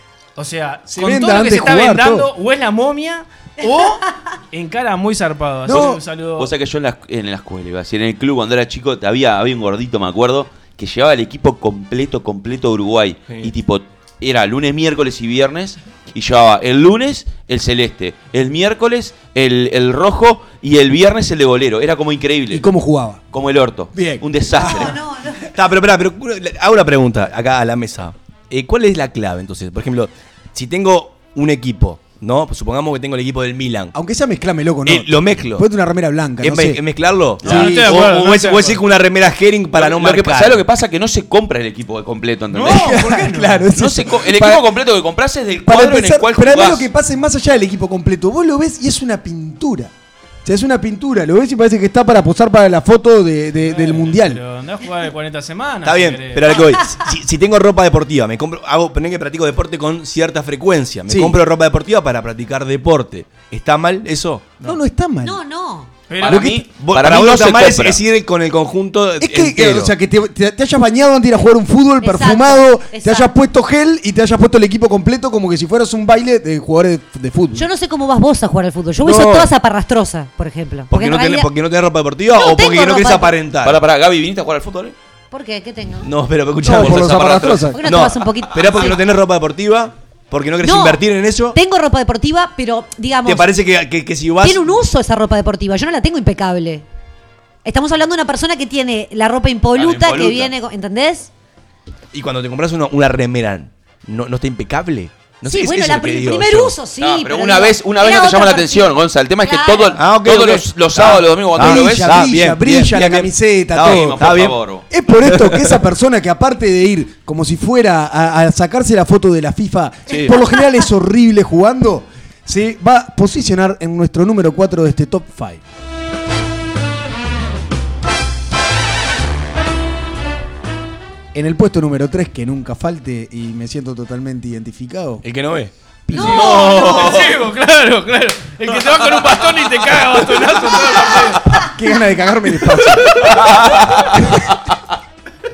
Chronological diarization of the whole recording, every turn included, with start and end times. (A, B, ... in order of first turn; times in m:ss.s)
0:00.4-0:06.5 A
0:00.9-0:02.3 B
0:05.6-0:06.0 B
0:05.7-0:22.7 C
0:13.3-0:13.5 D
0:22.5-0:23.2 B
0:23.3-0:25.0 C
0:23.9-0:25.0 B
0:24.6-0:25.5 E
0:25.5-0:33.9 D
0:33.9-0:36.8 B
0:34.9-0:35.7 D
0:36.4-0:40.6 D
0:37.4-0:38.1 B
0:37.5-0:38.8 A
0:39.8-0:43.0 C
0:42.5-0:43.6 A
0:42.6-0:44.7 B
0:43.7-0:46.9 C
0:45.6-0:49.9 B
0:50.4-0:54.4 B
0:53.6-0:56.6 A
0:55.8-1:04.6 D
1:01.1-1:01.4 B
1:04.6-1:05.4 B
1:05.2-1:05.9 E
1:06.1-1:06.4 A
1:06.2-1:08.0 C
1:06.2-1:09.9 D
1:09.2-1:17.7 B
1:12.0-1:13.3 E
1:17.6-1:21.5 E
1:19.0-1:19.5 D
1:20.9-1:23.8 D
1:22.3-1:23.4 E
1:23.6-1:25.0 C
1:25.3-1:26.1 E
1:26.0-1:31.6 D
1:26.6-1:27.8 B
1:26.7-1:27.7 C
1:27.7-1:29.0 E
1:30.6-1:33.5 E
1:33.2-1:34.7 D
1:34.4-1:36.8 E
1:37.6-1:41.3 E
1:39.8-1:40.5 C
1:42.1-1:46.8 D
1:45.5-1:50.0 E
1:47.0-1:52.3 C
1:50.0-1:54.6 D
1:51.6-1:54.2 B
1:53.8-1:54.8 C
1:54.9-2:05.6 B
1:55.3-1:55.7 D
2:00.1-2:00.4 D
2:11.3-2:15.2 B
2:15.2-2:15.7 D
2:16.1-2:16.5 B
2:16.1-2:17.2 E
2:16.2-2:21.5 A
2:16.5-2:17.2 C
2:21.6-2:24.4 B
2:23.2-2:24.4 C